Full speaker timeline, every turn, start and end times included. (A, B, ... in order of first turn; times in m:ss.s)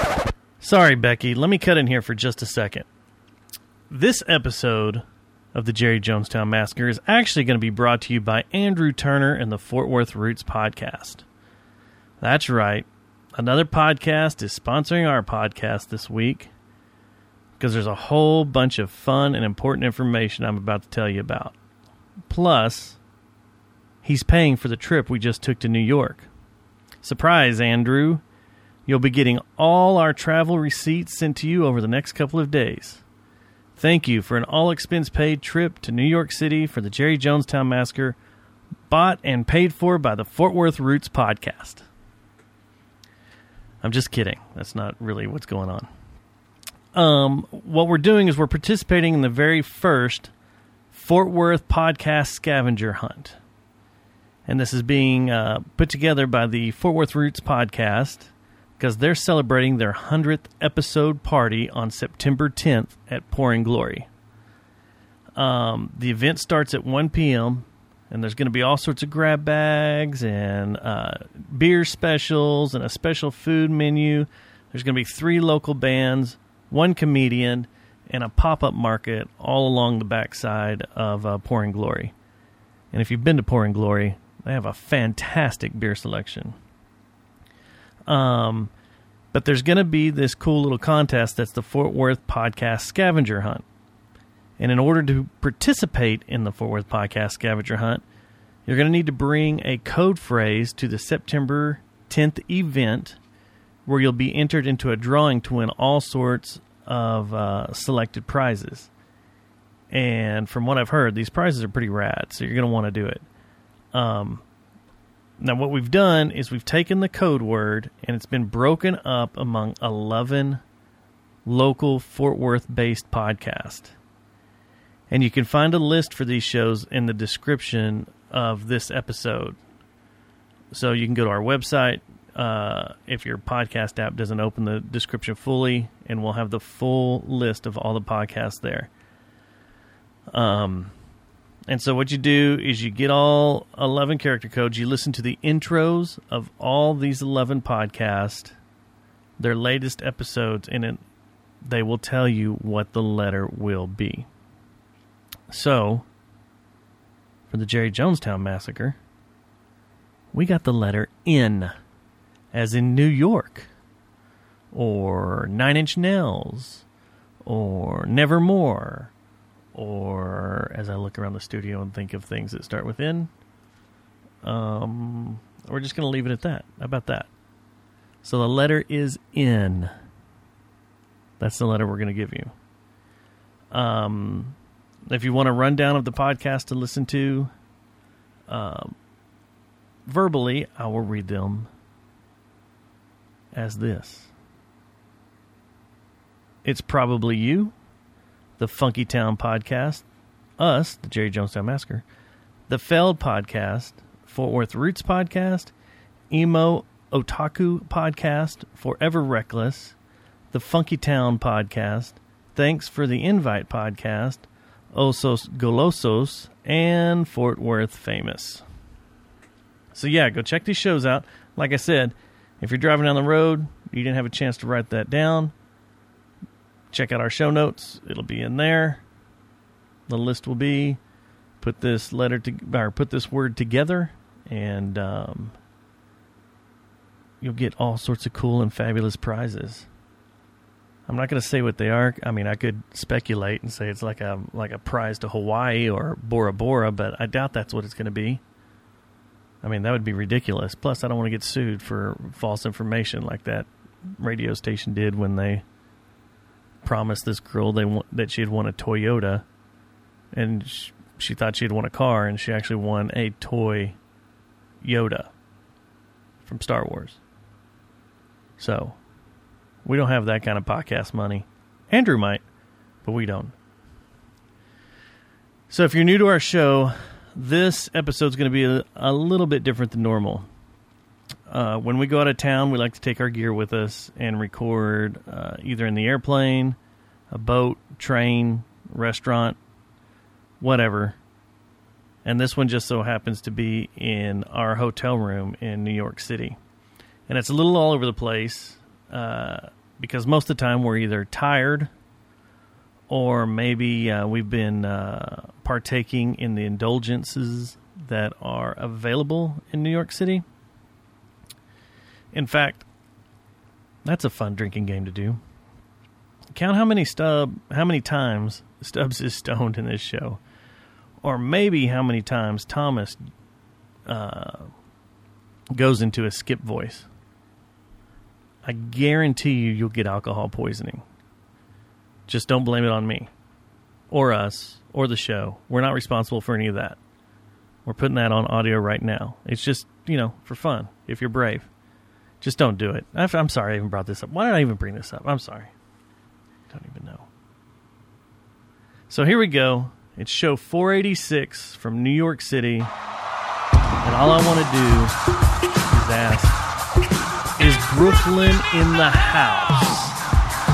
0:00.6-0:02.8 A
0:03.9-0:05.0 A
0:05.5-0:11.2 A
0:12.2-0:16.5 A
0:17.6-0:21.6 A
0:22.3-0:23.0 A
0:24.0-0:26.3 A
0:27.0-0:28.2 A
0:28.9-0:33.0 A
0:33.8-0:38.2 A
0:38.9-0:41.8 A
0:43.8-0:45.9 A
0:46.9-0:50.3 A
0:50.9-0:53.4 A
0:54.5-1:04.1 A
1:05.4-1:22.1 A
1:22.9-1:26.6 A
1:28.1-1:28.7 A
1:29.3-1:33.6 A
1:34.6-1:38.0 A
1:38.7-1:43.2 A
1:43.9-1:48.9 A
1:49.9-1:53.2 A
1:53.9-1:54.4 A
1:55.4-2:00.6 A
2:01.4-2:03.9 A
2:05.1-2:09.6 A
2:10.7-2:18.9 A
2:20.3-2:20.9 A
2:21.7-2:28.5 A
2:29.4-2:31.0 A
2:31.6-2:34.3 A
2:35.5-2:36.0 A
2:37.5-2:39.0 A
2:40.3-2:41.7 A
2:42.5-2:43.7 A
2:44.7-2:46.8 A
2:47.4-2:49.1 A
2:49.7-2:53.3 A
2:54.4-2:57.3 A
2:58.2-2:59.9 A
3:01.4-3:02.5 A
3:03.7-3:04.6 A
3:05.1-3:07.5 A
3:08.5-3:09.0 A
3:10.1-3:11.7 A
3:13.5-3:14.3 A
3:16.6-3:17.7 A
3:18.6-3:20.0 A
3:20.6-3:22.0 A
3:22.7-3:25.7 A
3:26.3-3:29.9 A
3:30.5-3:38.6 A
3:39.9-3:45.5 A
3:46.9-3:49.0 A
3:50.1-3:51.0 A
3:51.6-3:55.5 A
3:57.4-3:59.9 A
4:01.1-4:08.4 A
4:09.6-4:15.6 A
4:16.8-4:19.4 A
4:20.3-4:24.0 A
4:24.8-4:25.3 A
4:26.4-4:27.2 A
4:28.6-4:29.0 A
4:29.8-4:32.4 A
4:33.0-4:33.5 A
4:35.7-4:40.5 A
4:41.5-4:46.8 A
4:47.3-4:49.6 A
4:50.6-4:51.2 A
4:52.2-4:56.6 A
4:57.3-5:01.9 A
5:03.1-5:10.4 A
5:12.3-5:12.8 A
5:14.0-5:15.4 A
5:16.5-5:20.4 A
5:21.2-5:23.2 A
5:24.0-5:24.7 A
5:25.7-5:27.0 A
5:28.6-5:31.0 A
5:32.3-5:33.3 A
5:34.1-5:37.0 A
5:37.8-5:41.7 A
5:42.4-5:45.7 A
5:46.7-5:47.3 A
5:49.1-5:52.9 A
5:54.0-5:55.1 A
5:55.9-5:56.6 A
5:57.6-6:00.1 A